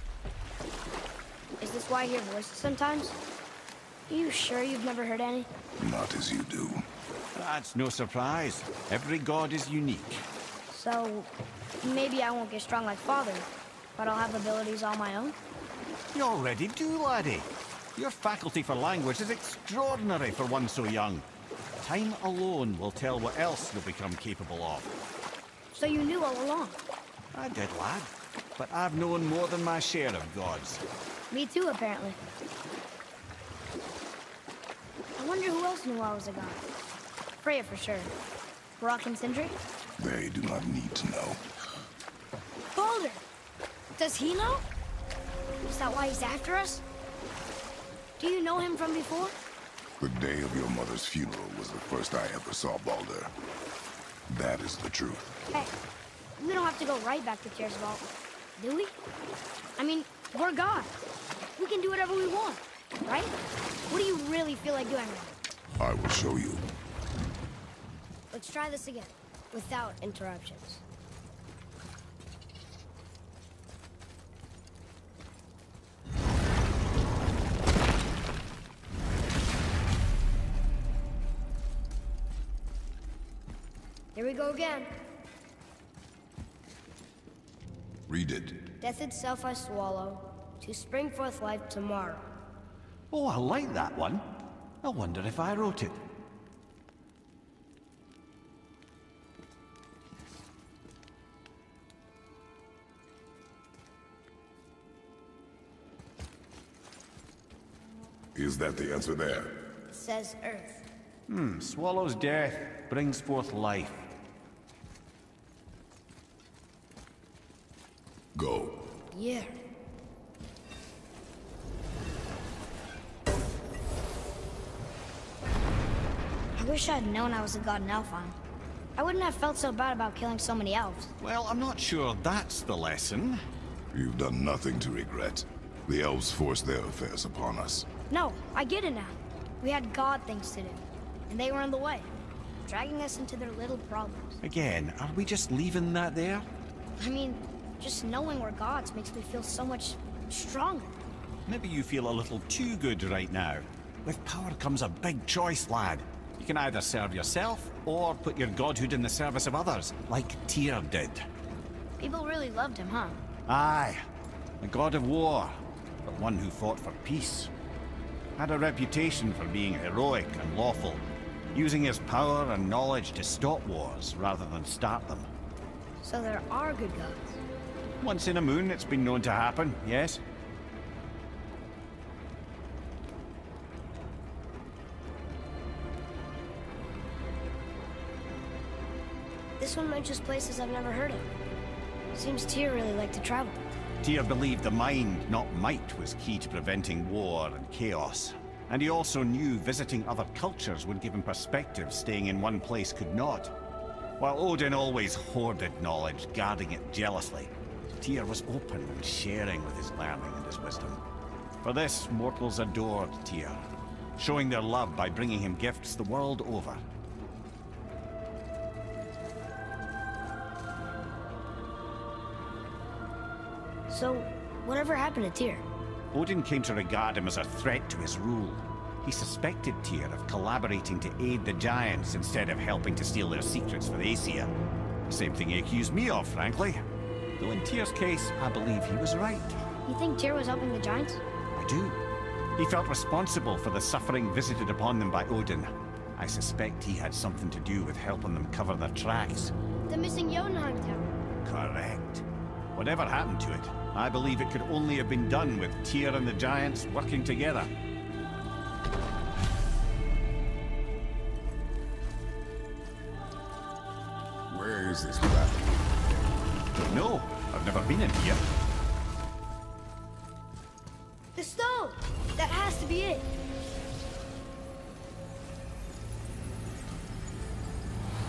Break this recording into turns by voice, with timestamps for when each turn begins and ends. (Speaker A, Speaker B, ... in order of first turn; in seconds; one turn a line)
Speaker A: 1.6-3.2
Speaker A: 4.1-5.5
Speaker B: 5.8-6.8
Speaker C: 7.3-10.3
Speaker A: 10.7-11.3
Speaker A: 11.8-15.4
Speaker C: 16.1-21.2
Speaker C: 21.8-24.9
Speaker A: 25.7-26.8
Speaker C: 27.3-30.8
Speaker A: 31.3-32.2
Speaker A: 35.2-36.6
Speaker A: 37.4-38.1
Speaker A: 38.8-39.5
Speaker B: 40.0-41.4
Speaker A: 42.7-43.2
Speaker A: 44.0-44.7
Speaker A: 45.6-46.8
Speaker A: 48.2-49.4
Speaker B: 50.0-53.3
Speaker B: 54.3-55.3
Speaker A: 56.4-59.0
Speaker A: 59.8-60.9
Speaker A: 61.6-63.3
Speaker A: 63.9-65.4
Speaker B: 65.8-66.6
Speaker A: 68.3-70.8
Speaker A: 84.2-84.9
Speaker B: 88.1-88.6
Speaker A: 88.8-92.3
Speaker C: 93.1-94.3
Speaker C: 94.8-96.0
Speaker B: 108.3-109.6
Speaker A: 109.9-110.8
Speaker C: 111.3-114.0
Speaker B: 118.3-118.9
Speaker A: 119.1-119.6
Speaker A: 126.6-128.4
Speaker A: 129.0-131.1
Speaker C: 131.2-133.4
Speaker B: 133.9-137.9
Speaker A: 138.1-142.1
Speaker A: 142.7-144.4
Speaker C: 144.4-146.5
Speaker A: 147.0-150.9
Speaker C: 151.5-161.3
Speaker A: 162.0-163.2
Speaker C: 163.5-164.0
Speaker C: 164.6-167.5
Speaker C: 168.4-175.3
Speaker A: 176.0-177.4
Speaker C: 178.0-180.2
Speaker A: 189.6-191.3
Speaker A: 192.1-193.6
Speaker C: 194.0-203.6
Speaker C: 204.2-211.0
Speaker C: 211.6-213.7
Speaker C: 214.2-216.8
Speaker A: 223.9-225.7
Speaker C: 226.1-234.5
Speaker C: 235.1-236.8
Speaker C: 237.4-239.6
Speaker A: 239.9-241.2
Speaker C: 241.6-242.0
Speaker C: 242.6-249.5
Speaker A: 249.9-251.2
Speaker C: 251.4-257.7
Speaker B: 264.5-265.8
Speaker C: 266.9-268.4
Speaker A: 271.4-273.3